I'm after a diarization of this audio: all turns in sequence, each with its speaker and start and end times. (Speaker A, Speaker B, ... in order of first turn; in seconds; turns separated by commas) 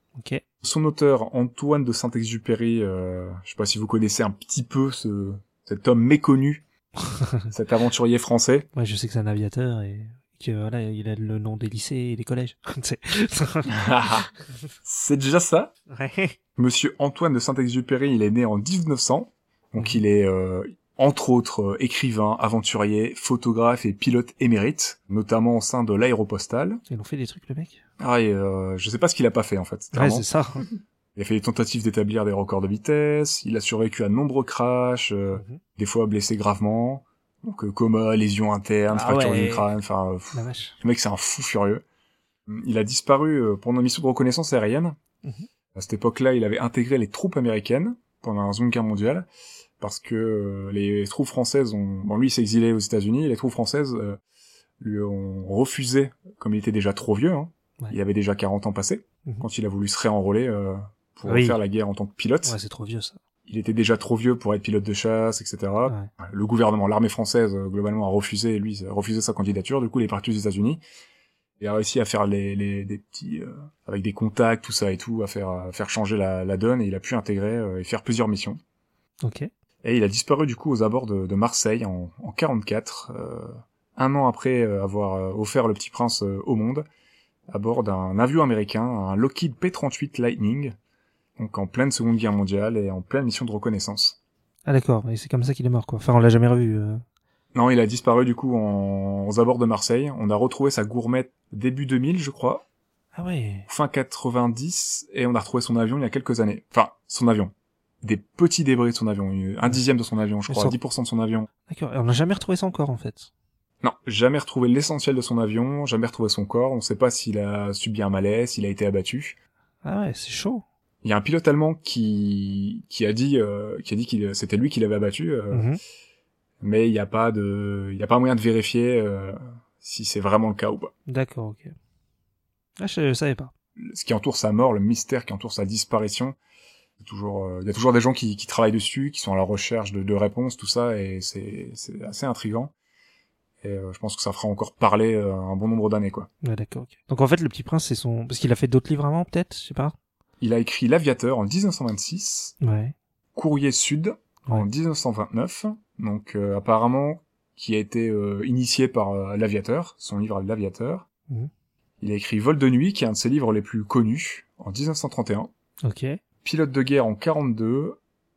Speaker A: 0.1-0.4, Speaker B: 0.6-6.6, Speaker A: 7.0-7.4, Speaker B: 7.5-8.7, Speaker A: 8.7-13.8, Speaker B: 13.7-14.3, Speaker B: 14.8-15.7, Speaker A: 15.9-16.4, Speaker B: 16.6-26.8, Speaker A: 26.9-27.8, Speaker B: 28.0-30.2, Speaker A: 29.9-30.7, Speaker B: 31.1-41.8, Speaker A: 35.3-35.6, Speaker A: 38.9-39.7, Speaker A: 40.3-40.8, Speaker B: 42.5-45.0, Speaker B: 45.7-49.2, Speaker B: 49.8-54.2, Speaker B: 54.8-62.5, Speaker A: 61.3-61.6, Speaker A: 62.4-63.2, Speaker B: 63.5-70.8, Speaker B: 71.6-78.6, Speaker A: 79.2-79.5, Speaker B: 79.8-86.8, Speaker B: 87.5-90.8, Speaker B: 91.4-94.2, Speaker A: 94.7-97.0, Speaker B: 97.5-102.6, Speaker A: 103.1-103.7, Speaker B: 103.7-111.5, Speaker A: 110.5-110.8, Speaker A: 111.7-113.3, Speaker B: 113.8-119.4, Speaker A: 119.8-120.6, Speaker B: 121.0-125.7, Speaker A: 125.5-125.8, Speaker B: 126.6-130.9, Speaker A: 131.1-131.7, Speaker A: 132.8-133.5, Speaker B: 133.8-136.3, Speaker B: 137.0-142.7, Speaker B: 143.6-146.3, Speaker A: 146.4-149.9, Speaker B: 150.4-152.5, Speaker A: 152.6-152.9, Speaker B: 153.3-161.1, Speaker B: 162.0-165.5, Speaker A: 165.8-166.2, Speaker B: 166.4-168.0